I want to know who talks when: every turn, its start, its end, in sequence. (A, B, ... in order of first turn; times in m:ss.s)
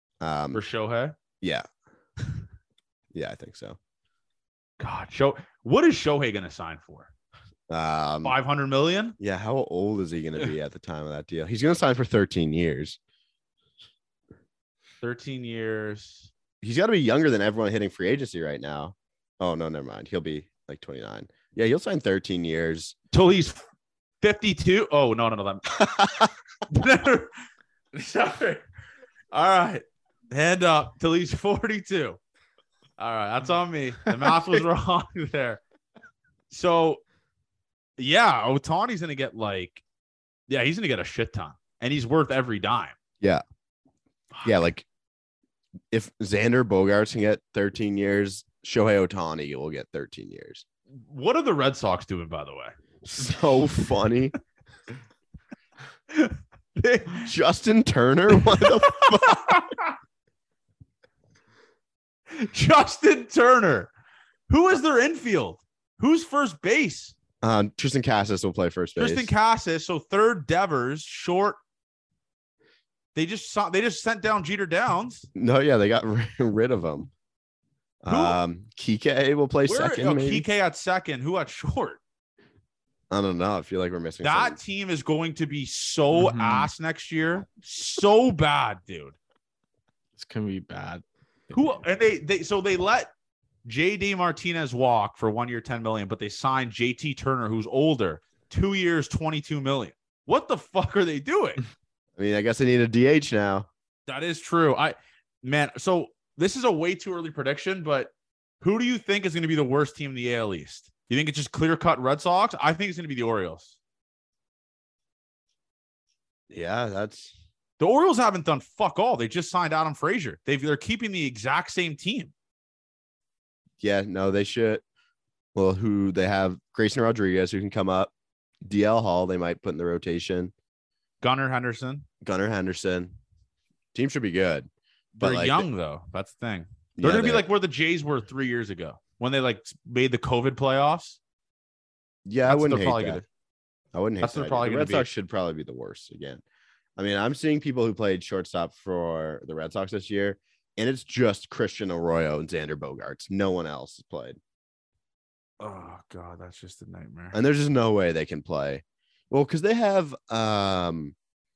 0:00.2-0:00.6 A
0:00.5-0:01.2 B
0:03.1-0:03.8 A
0:04.8-0:07.1 B
0:07.7-0:08.4 A
0:08.2-0:09.2 B
0:09.2-0:13.0 A
0:15.0-0:16.3 B
0:16.6-0:23.0 A
0:23.1-0:23.6 B
0:24.2-0:25.9 B
0:25.8-0:26.3 A
0:26.7-0:27.3 B
0:27.9-0:28.6 B
0:29.3-0:32.2 B
0:33.0-0:35.6 B
0:36.5-0:37.0 B
0:38.0-0:39.8 B
0:40.5-0:43.0 B
0:44.4-0:44.9 A
0:45.9-0:50.6 A
0:51.0-0:52.7 B
0:53.0-0:54.4 A
0:56.1-0:57.3 B
0:57.2-0:59.6 A
0:58.6-0:59.9 B
1:02.3-1:03.9 B
1:04.5-1:07.2 B
1:07.4-1:09.3 A
1:09.0-1:11.6 B
1:13.2-1:15.3 B
1:15.4-1:17.1 A
1:18.0-1:20.5 A
1:18.1-1:18.4 B
1:19.6-1:22.0 B
1:23.1-1:24.6 A
1:24.2-1:29.2 B
1:26.1-1:26.7 C
1:30.2-1:31.7 C
1:31.5-1:33.1 B
1:33.6-1:41.6 B
1:42.2-1:43.7 A
1:44.1-1:53.8 B
1:56.5-1:57.4 A
1:57.8-2:02.3 B
2:03.8-2:04.8 A
2:05.6-2:08.1 A
2:08.6-2:10.5 A
2:11.2-2:12.1 B
2:12.2-2:13.1 A
2:13.9-2:15.7 A
2:15.2-2:21.2 B
2:17.0-2:17.5 A
2:22.3-2:23.2 A
2:22.5-2:23.2 B
2:23.9-2:26.4 A
2:24.2-2:25.1 B
2:27.0-2:34.4 A
2:35.6-2:37.4 B
2:37.3-2:41.2 A